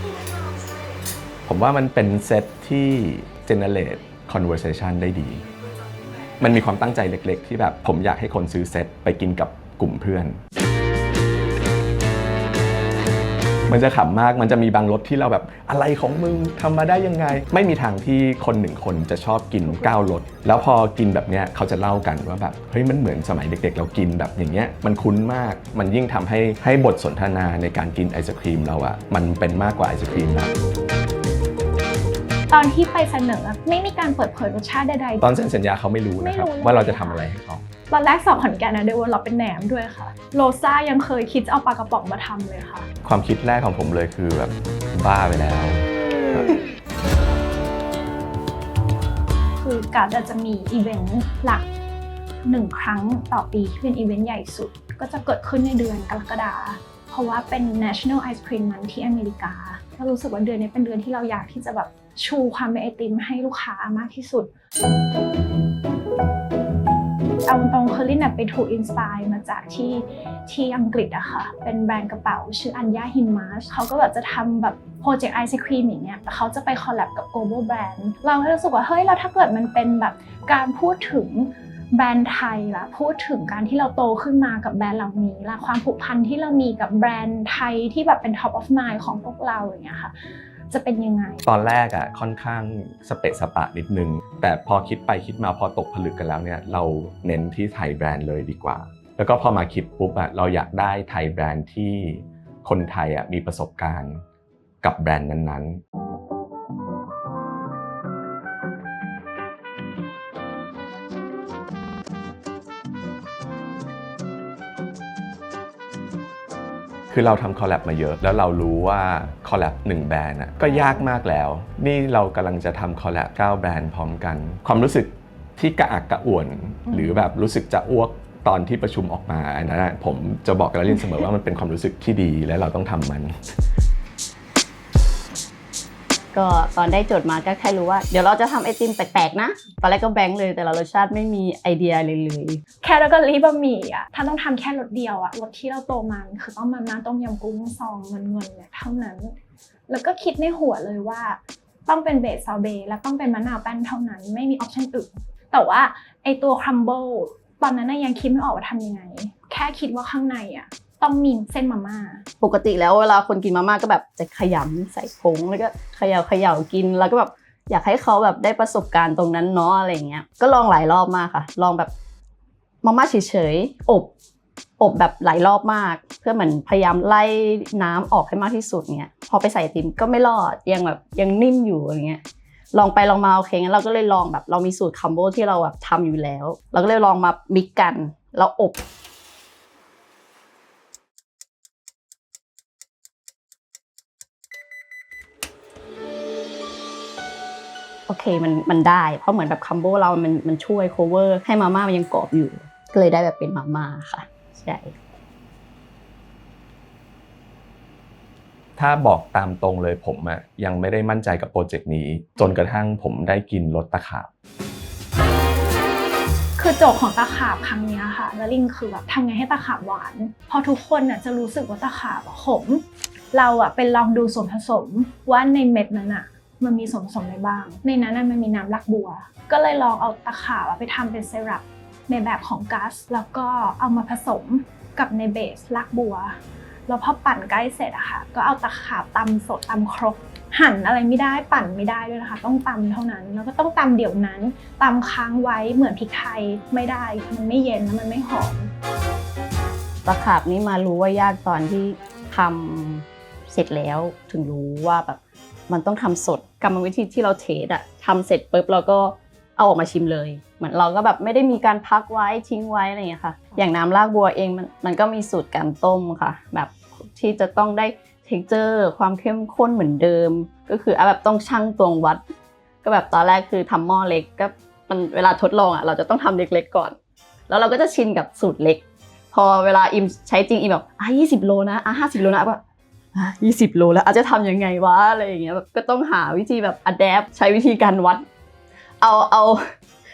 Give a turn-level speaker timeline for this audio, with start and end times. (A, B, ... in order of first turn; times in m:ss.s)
0:01.4-0:05.4 A
0:06.4-0:10.4 A
0:13.7-0:30.5 A
0:32.5-0:35.3 B
0:35.2-0:37.6 A
0:36.2-0:37.3 B
0:37.9-0:42.9 B
0:43.0-0:46.6 A
0:49.6-0:51.6 B
0:52.4-1:04.5 B
1:07.4-1:30.1 B
1:30.7-1:31.4 B
1:31.4-1:44.2 A
1:44.8-1:45.8 A
1:57.1-2:13.3 A
2:00.6-2:01.0 B
2:06.9-2:07.2 B
2:16.3-2:22.6 C
2:22.8-2:29.4 B
2:29.9-2:42.2 B
2:42.4-2:51.9 C
2:52.8-2:54.1 C
2:54.8-3:02.2 C
3:02.7-3:08.8 C
3:18.1-3:24.9 C
3:28.8-3:34.3 A
3:36.6-4:08.7 B
4:10.0-4:32.2 C
4:32.8-4:37.0 C
4:37.5-4:42.6 C
4:43.1-4:48.2 C
4:49.0-4:49.6 C